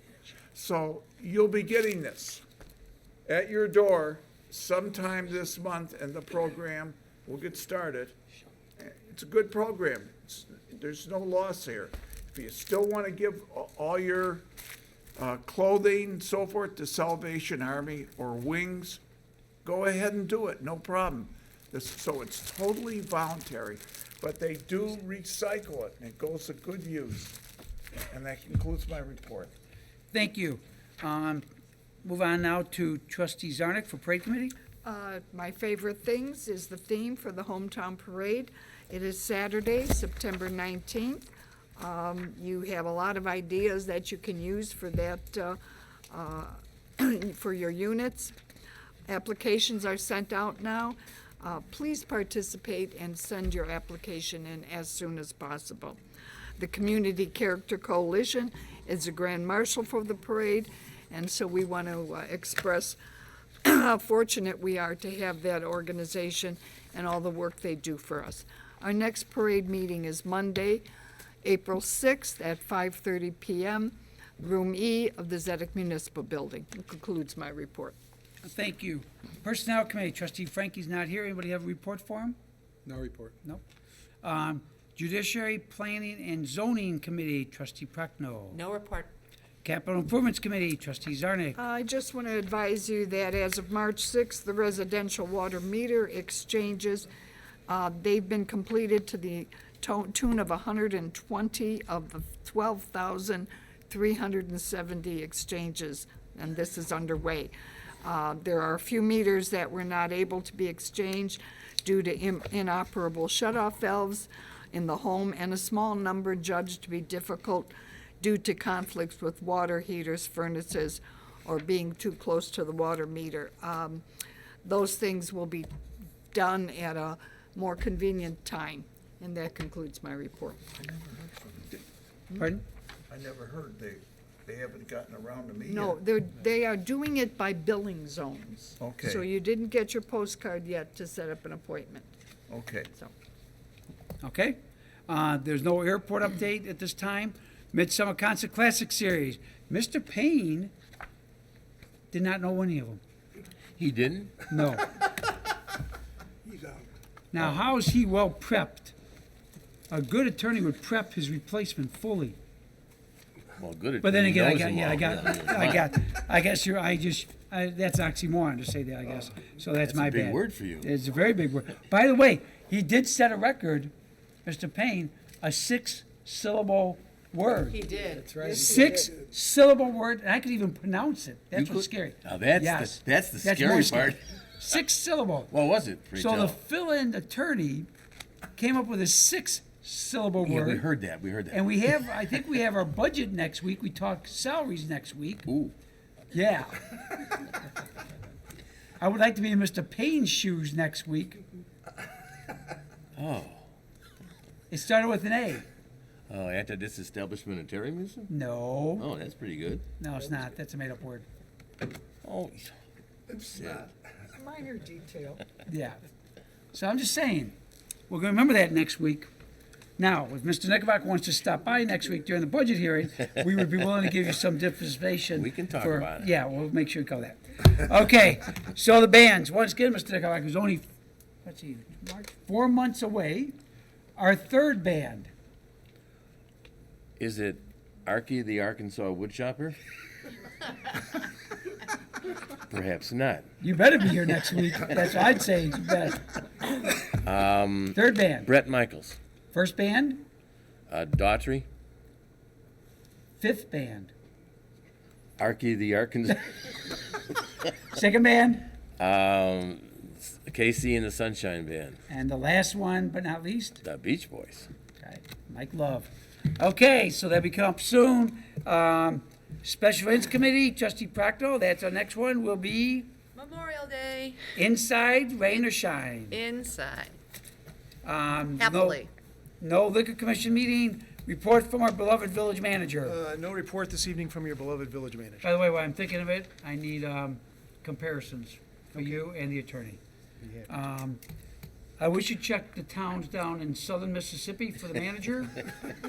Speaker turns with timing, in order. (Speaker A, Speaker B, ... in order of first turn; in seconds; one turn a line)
Speaker A: 0.5-2.4
Speaker A: 3.3-8.2
Speaker A: 8.8-14.4
Speaker A: 15.2-19.0
Speaker A: 19.6-27.4
Speaker A: 28.1-29.5
Speaker B: 30.1-31.4
Speaker B: 32.0-34.5
Speaker C: 34.8-45.6
Speaker C: 46.1-48.3
Speaker C: 49.1-56.0
Speaker C: 56.6-63.0
Speaker C: 63.6-70.8
Speaker C: 71.4-77.9
Speaker B: 78.4-82.4
Speaker D: 82.8-83.3
Speaker B: 84.2-88.6
Speaker E: 88.5-89.1
Speaker B: 89.6-91.6
Speaker C: 91.6-97.1
Speaker C: 97.7-124.0
Speaker C: 124.6-125.7
Speaker C: 126.3-130.8
Speaker A: 130.8-131.8
Speaker B: 132.4-132.6
Speaker A: 133.1-136.0
Speaker C: 135.7-142.1
Speaker A: 138.8-139.2
Speaker A: 142.5-142.9
Speaker B: 144.2-150.7
Speaker B: 152.1-153.0
Speaker F: 153.8-154.5
Speaker B: 154.5-154.9
Speaker B: 157.3-158.9
Speaker B: 159.9-162.4
Speaker F: 163.6-165.8
Speaker B: 164.0-173.9
Speaker F: 169.9-170.9
Speaker B: 174.4-177.8
Speaker E: 177.7-178.3
Speaker D: 178.2-178.9
Speaker B: 178.4-185.5
Speaker F: 181.5-184.2
Speaker F: 185.5-186.6
Speaker B: 186.2-187.9
Speaker B: 188.6-190.8
Speaker F: 190.4-191.9
Speaker B: 191.5-195.5
Speaker F: 195.5-195.7
Speaker B: 196.3-197.4
Speaker B: 199.0-201.4
Speaker F: 203.2-203.7
Speaker B: 204.7-205.7
Speaker F: 206.3-208.3
Speaker B: 208.3-209.1
Speaker F: 209.0-209.8
Speaker B: 210.0-211.2
Speaker F: 212.2-212.8
Speaker F: 213.5-213.9
Speaker C: 214.4-215.5
Speaker B: 215.7-216.0
Speaker B: 216.7-217.5
Speaker B: 218.1-219.3
Speaker B: 220.0-230.9
Speaker F: 225.3-226.3
Speaker B: 231.4-233.6
Speaker B: 234.2-235.3
Speaker F: 237.2-239.8
Speaker F: 242.7-243.5
Speaker B: 243.6-246.3
Speaker F: 247.2-249.2
Speaker B: 247.9-248.5
Speaker B: 249.5-250.2
Speaker F: 250.9-251.7
Speaker B: 253.4-254.1
Speaker F: 255.4-256.5
Speaker B: 257.9-258.7
Speaker F: 259.0-262.0
Speaker B: 262.1-263.8
Speaker F: 263.8-264.7
Speaker B: 265.0-273.1
Speaker E: 273.3-274.4
Speaker B: 274.5-276.4
Speaker E: 276.3-277.1
Speaker B: 278.0-279.0
Speaker E: 278.6-279.1
Speaker B: 279.6-283.2
Speaker D: 283.0-285.6
Speaker B: 285.4-290.0
Speaker B: 290.6-291.2
Speaker B: 292.0-295.6